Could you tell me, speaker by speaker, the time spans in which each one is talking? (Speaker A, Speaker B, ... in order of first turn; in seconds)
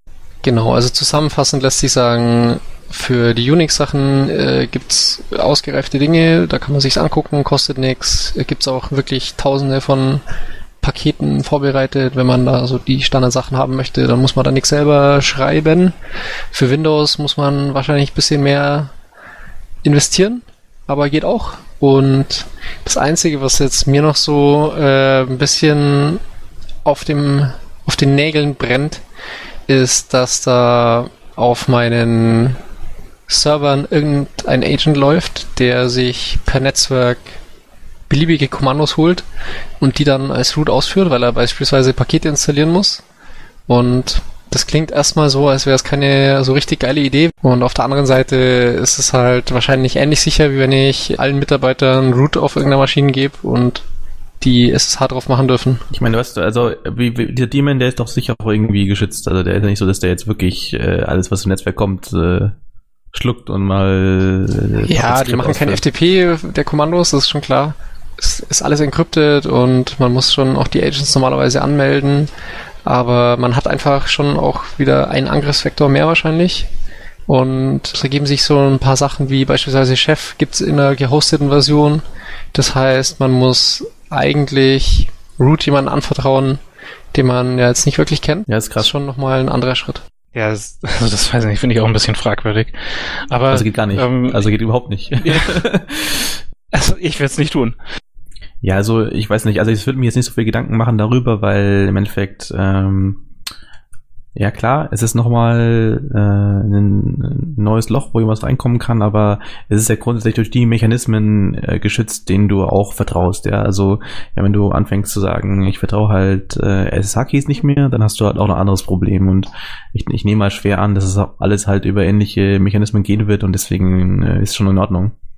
Speaker A: 0.4-10.2, 10.8-15.9, 16.5-18.9, 19.8-26.2, 26.9-29.0, 29.7-32.6, 33.3-37.4, 38.1-39.2, 39.8-43.0, 43.7-53.8, 54.4-55.8, 64.8-72.3, 72.9-76.7, 77.3-82.0, 82.5-86.6, 87.1-90.0
Speaker B: 55.9-62.5, 63.1-65.8, 88.5-88.9, 93.5-96.4, 98.6-103.2, 104.4-125.1
Speaker C: 90.3-94.5, 95.2-95.6, 96.7-97.8